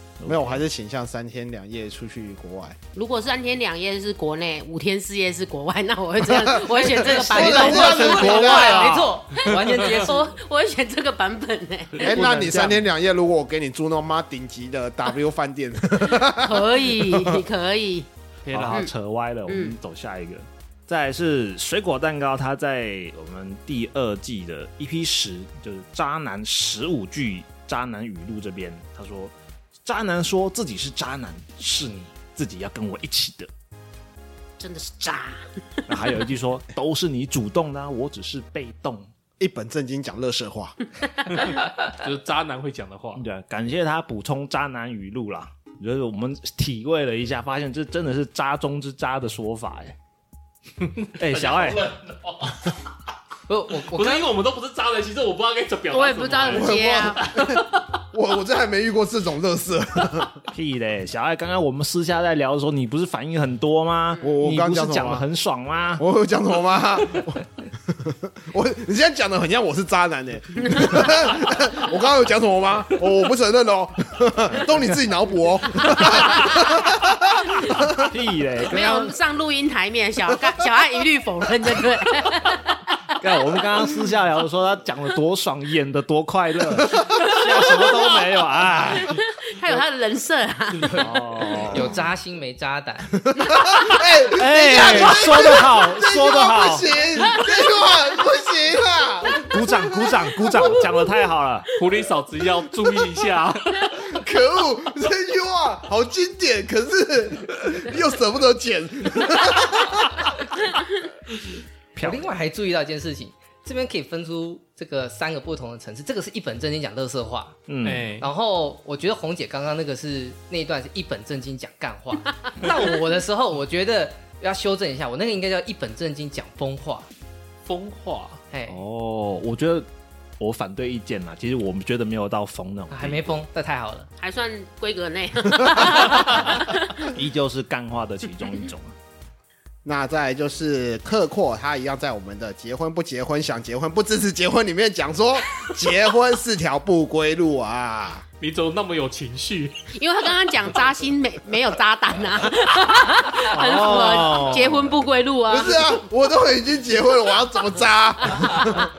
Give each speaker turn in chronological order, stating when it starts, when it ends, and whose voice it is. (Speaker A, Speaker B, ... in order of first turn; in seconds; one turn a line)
Speaker A: 0.2-0.6
Speaker B: 0.2-2.8
Speaker C: 2.9-8.6
Speaker B: 6.2-8.9
Speaker D: 6.9-10.3
Speaker E: 7.7-10.1
Speaker C: 9.3-12.1
Speaker E: 12.0-12.7
Speaker B: 12.0-17.4
Speaker A: 12.3-12.7
Speaker C: 16.0-18.1
Speaker E: 18.4-18.8
Speaker A: 18.5-29.3
Speaker C: 19.5-19.8
Speaker A: 29.8-33.5
Speaker C: 34.6-35.4
Speaker A: 35.9-39.1
Speaker B: 39.4-40.8
Speaker E: 41.4-43.2
Speaker A: 43.1-49.9
Speaker E: 50.8-52.8
Speaker A: 51.2-51.9
Speaker D: 53.5-54.2
Speaker E: 53.8-57.8
Speaker C: 55.9-57.3
Speaker B: 56.5-60.4
Speaker A: 60.5-66.0
Speaker B: 64.2-65.2
Speaker B: 66.0-77.9
Speaker C: 70.6-71.1
Speaker C: 76.0-76.8
Speaker A: 78.0-79.1
Speaker C: 78.7-83.0
Speaker A: 83.2-89.2
Speaker C: 87.1-88.0
Speaker C: 88.9-91.1
Speaker A: 91.0-92.0
Speaker D: 91.7-93.2
Speaker B: 93.3-99.8
Speaker A: 94.3-96.9
Speaker A: 99.3-101.7
Speaker E: 101.7-104.1
Speaker B: 104.0-110.3
Speaker A: 111.9-112.3
Speaker D: 112.0-117.6
Speaker A: 117.7-118.1
Speaker E: 117.8-118.3
Speaker D: 118.1-127.1
Speaker E: 127.6-128.4
Speaker D: 128.5-128.8
Speaker A: 128.7-129.9
Speaker A: 130.4-133.2
Speaker D: 132.9-134.1
Speaker C: 134.2-137.1
Speaker A: 137.0-138.9
Speaker B: 139.8-148.2
Speaker E: 148.4-149.8
Speaker C: 149.9-155.9
Speaker A: 153.5-154.9
Speaker B: 155.5-158.8
Speaker C: 158.5-158.8